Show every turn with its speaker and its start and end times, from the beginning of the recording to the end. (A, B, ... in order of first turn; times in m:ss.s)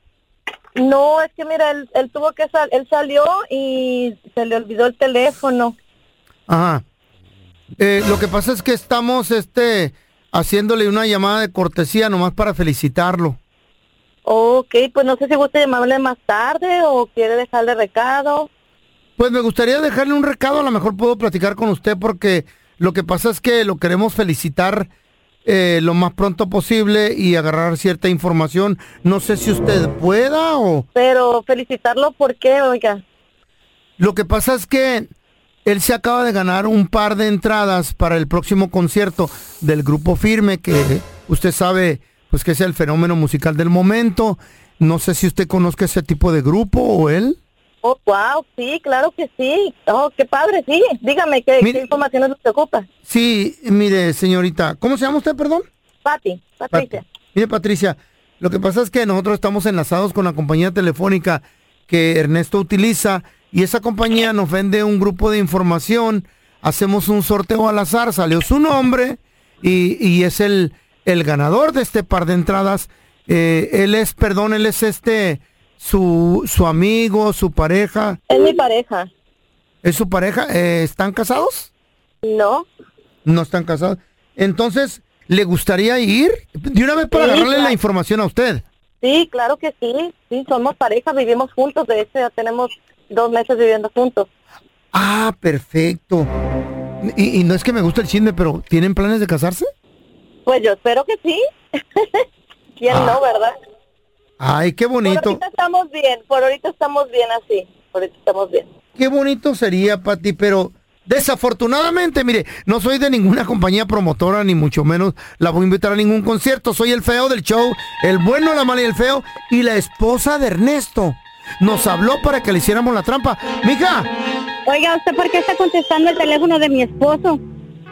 0:00.8-0:05.7 A
0:06.5-0:06.8 B
0:07.8-0:13.4 B
0:14.2-0:18.5 A
0:19.2-0:24.9 B
0:25.4-0:30.8 B
0:30.9-0:33.0 A
0:34.0-0:35.1 B
0:35.6-0:47.4 B
0:47.8-0:52.9 A
0:53.0-0:55.6 B
0:56.0-0:57.0 A
0:56.7-1:18.2 B
1:18.3-1:19.1 A
1:19.8-1:21.7 B
1:22.2-1:22.6 A
1:23.2-1:28.6 B
1:27.1-1:27.8 A
1:29.0-1:34.3 A
1:34.9-1:36.3 B
1:37.0-1:39.7 B
1:40.4-1:41.4 A
1:42.0-1:42.2 A
1:42.8-1:43.5 A
1:42.9-1:43.2 B
1:44.4-1:45.4 B
1:45.0-1:48.6 A
1:49.0-2:04.1 B
2:04.6-2:07.4 C